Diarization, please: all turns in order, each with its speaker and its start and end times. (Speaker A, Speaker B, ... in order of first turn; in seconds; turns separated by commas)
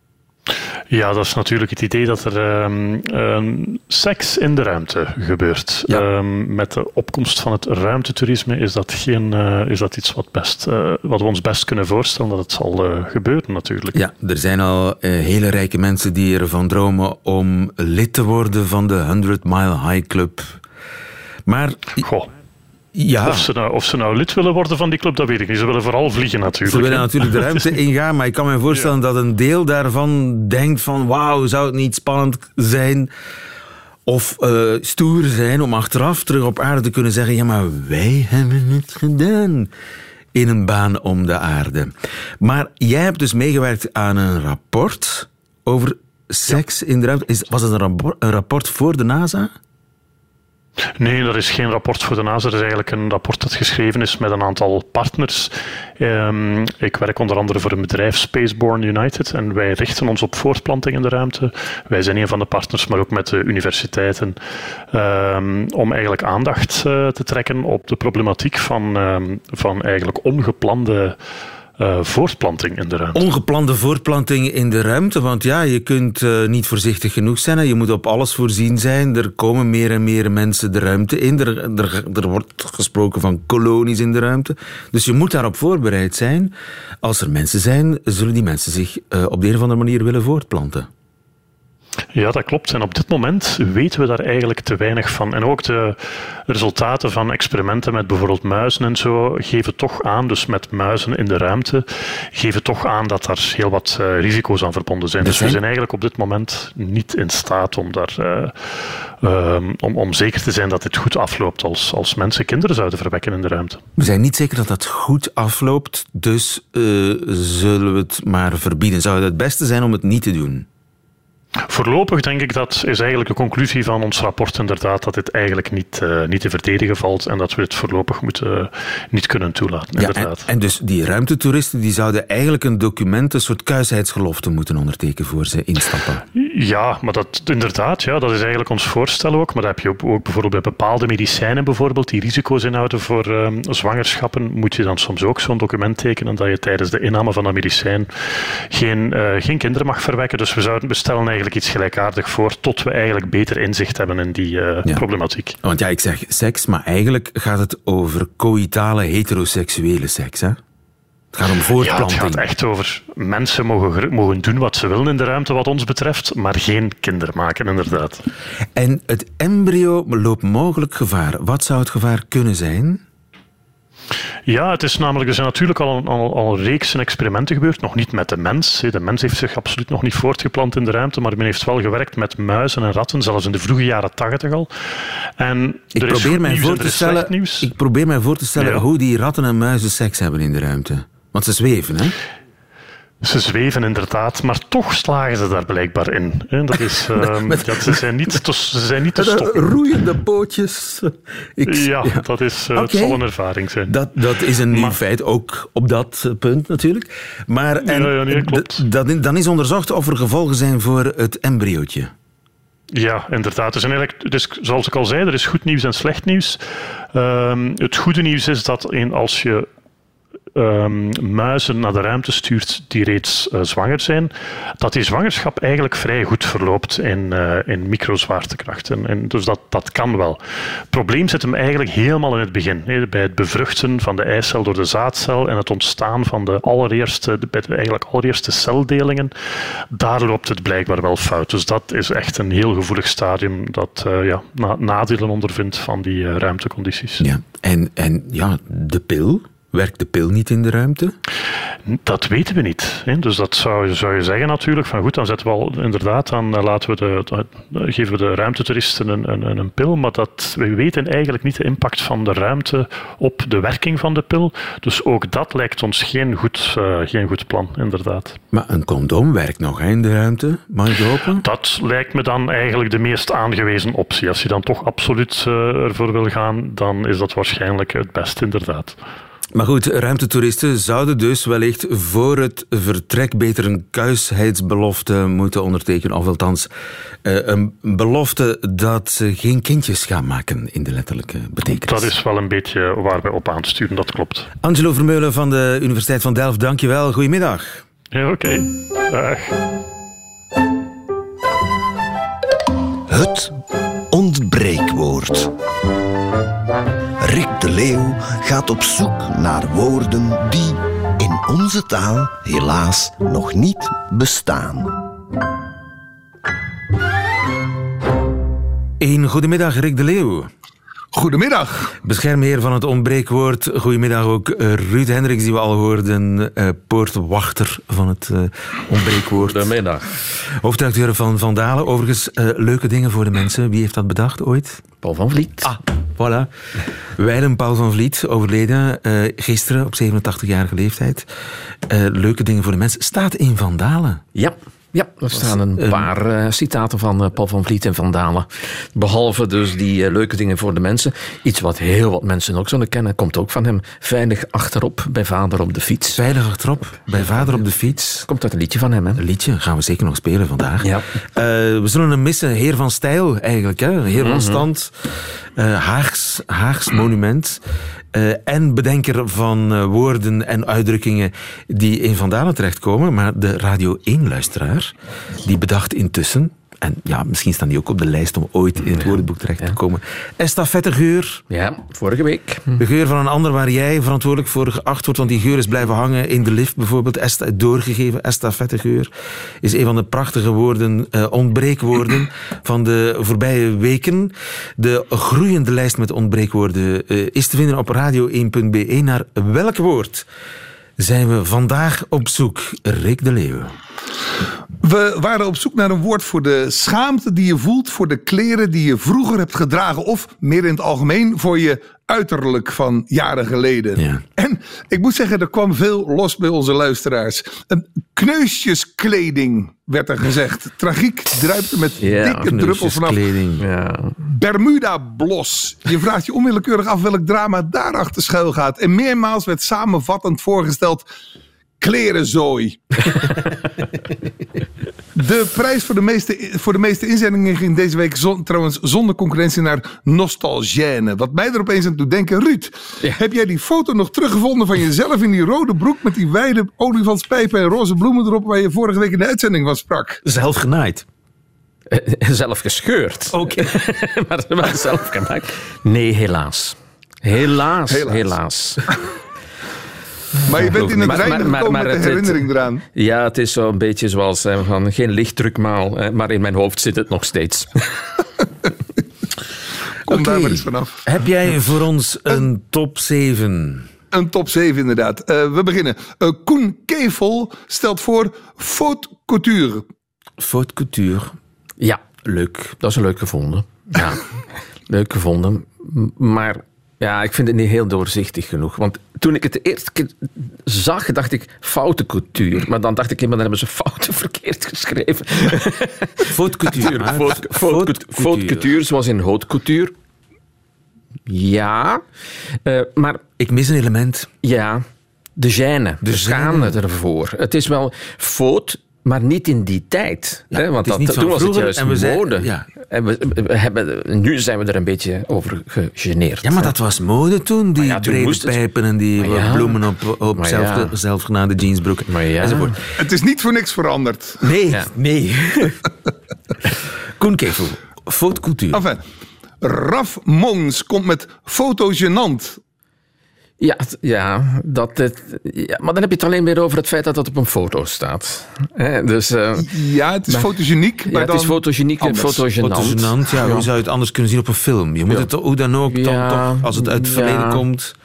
Speaker A: 0.9-14.0, Speaker B: 13.9-20.6, Speaker B: 21.4-22.0, Speaker A: 22.0-22.3, Speaker B: 22.9-23.5, Speaker A: 23.2-27.7, Speaker B: 26.6-33.1, Speaker B: 34.0-39.7, Speaker B: 40.3-49.5, Speaker A: 51.0-64.4, Speaker A: 64.9-71.2, Speaker A: 71.8-73.2, Speaker B: 73.1-90.9, Speaker A: 92.1-113.8, Speaker B: 105.2-105.6, Speaker B: 114.0-120.7, Speaker A: 121.7-130.5, Speaker B: 130.0-136.2, Speaker A: 136.3-155.6, Speaker B: 155.6-160.6, Speaker B: 161.3-162.4, Speaker A: 161.8-168.2, Speaker B: 168.8-173.0, Speaker A: 174.4-184.7, Speaker A: 185.4-187.7, Speaker B: 185.9-192.2, Speaker A: 188.6-188.8, Speaker A: 193.2-199.7, Speaker B: 196.9-198.3, Speaker B: 199.2-203.2, Speaker A: 201.7-204.0, Speaker B: 203.9-212.1, Speaker A: 204.7-205.0, Speaker A: 207.8-208.8, Speaker A: 212.9-216.6, Speaker A: 217.1-219.7, Speaker A: 220.5-230.4, Speaker A: 230.9-239.3, Speaker A: 239.9-247.2, Speaker B: 247.2-251.1, Speaker A: 251.8-268.4, Speaker B: 268.5-271.4, Speaker A: 271.4-279.0, Speaker B: 279.5-286.7, Speaker B: 287.2-292.1, Speaker A: 291.8-294.5, Speaker B: 294.6-297.8, Speaker A: 298.1-299.6, Speaker C: 303.1-303.6, Speaker C: 304.1-305.5, Speaker C: 307.2-314.9, Speaker B: 319.0-320.5, Speaker D: 321.1-321.9, Speaker B: 322.0-329.7, Speaker E: 329.4-330.2, Speaker B: 330.3-334.8, Speaker E: 335.0-335.8, Speaker B: 335.6-341.3, Speaker B: 341.9-344.2, Speaker E: 344.3-356.2, Speaker B: 345.4-346.1, Speaker B: 356.1-358.3, Speaker E: 358.2-359.2, Speaker B: 359.2-367.6, Speaker E: 360.8-361.1, Speaker E: 364.2-364.6, Speaker B: 368.1-381.4, Speaker E: 381.5-382.8, Speaker B: 382.8-389.1, Speaker B: 389.6-400.2, Speaker B: 401.0-403.7, Speaker D: 404.8-423.2, Speaker B: 413.9-414.2, Speaker E: 422.0-422.5, Speaker B: 422.4-423.6, Speaker E: 423.6-424.3, Speaker D: 424.3-431.1, Speaker D: 431.8-433.4, Speaker D: 435.1-450.2, Speaker B: 450.2-451.0, Speaker E: 451.9-458.8, Speaker B: 453.3-453.7, Speaker D: 457.9-458.4, Speaker D: 460.4-462.8, Speaker E: 460.7-468.0, Speaker B: 460.7-461.2, Speaker D: 470.1-470.9, Speaker B: 470.1-473.9, Speaker D: 474.1-479.8, Speaker B: 480.4-481.4, Speaker B: 482.2-482.8, Speaker E: 482.8-484.2, Speaker E: 484.9-499.9, Speaker B: 496.2-498.7, Speaker E: 501.3-502.0, Speaker E: 502.6-503.2, Speaker B: 503.4-504.3, Speaker E: 504.4-504.8, Speaker E: 505.4-516.7, Speaker B: 506.0-506.8, Speaker B: 510.5-512.7, Speaker B: 516.4-522.8, Speaker E: 517.8-518.6, Speaker E: 519.2-519.8, Speaker E: 520.3-520.9, Speaker E: 522.1-522.7, Speaker D: 523.0-524.4, Speaker B: 524.4-525.8, Speaker B: 527.2-528.8, Speaker D: 528.7-529.0, Speaker D: 529.6-532.6, Speaker E: 533.6-539.7, Speaker D: 539.6-542.5, Speaker E: 540.3-540.5, Speaker E: 541.0-543.7, Speaker B: 542.6-547.9, Speaker E: 545.9-547.6